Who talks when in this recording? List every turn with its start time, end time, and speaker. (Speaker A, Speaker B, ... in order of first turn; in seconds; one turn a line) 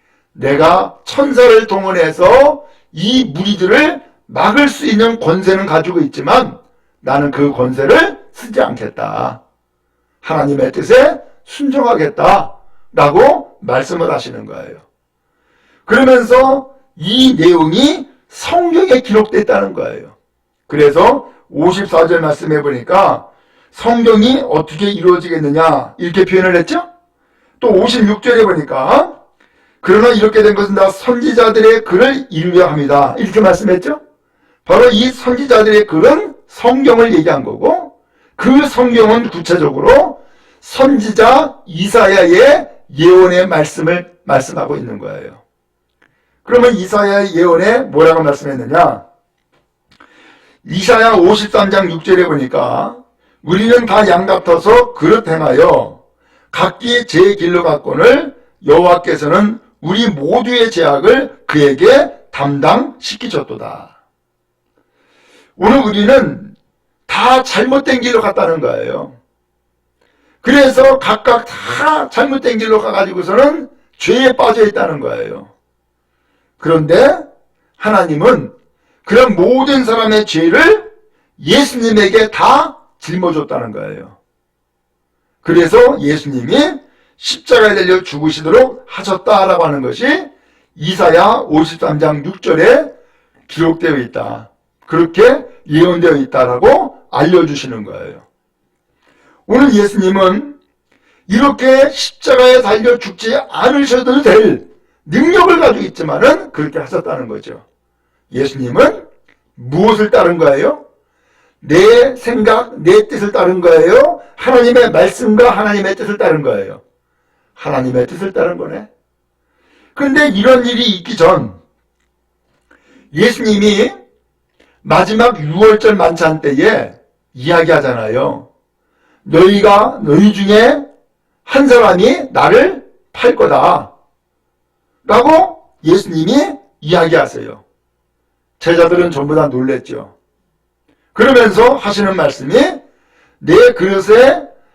Speaker A: 0.3-9.4
Speaker A: 10.2-14.8
Speaker A: 15.8-20.1
Speaker A: 20.7-26.9
Speaker A: 27.6-29.1
Speaker A: 29.8-34.0
Speaker A: 34.6-45.4
Speaker A: 46.4-49.0
Speaker A: 50.6-56.0
Speaker A: 56.5-63.9
Speaker A: 65.6-66.5
Speaker A: 67.1-69.2
Speaker A: 70.4-75.5
Speaker A: 76.6-77.2
Speaker A: 77.8-78.5
Speaker A: 79.0-84.2
Speaker A: 85.4-92.9
Speaker A: 93.5-98.2
Speaker A: 99.5-100.6
Speaker A: 101.3-107.6
Speaker A: 108.3-110.8
Speaker A: 111.6-116.8
Speaker A: 117.5-118.9
Speaker A: 119.9-121.6
Speaker A: 123.1-124.0
Speaker A: 124.8-128.5
Speaker A: 129.2-130.8
Speaker A: 131.4-133.9
Speaker A: 135.0-137.6
Speaker A: 138.6-140.1
Speaker A: 141.1-142.8
Speaker A: 143.4-144.4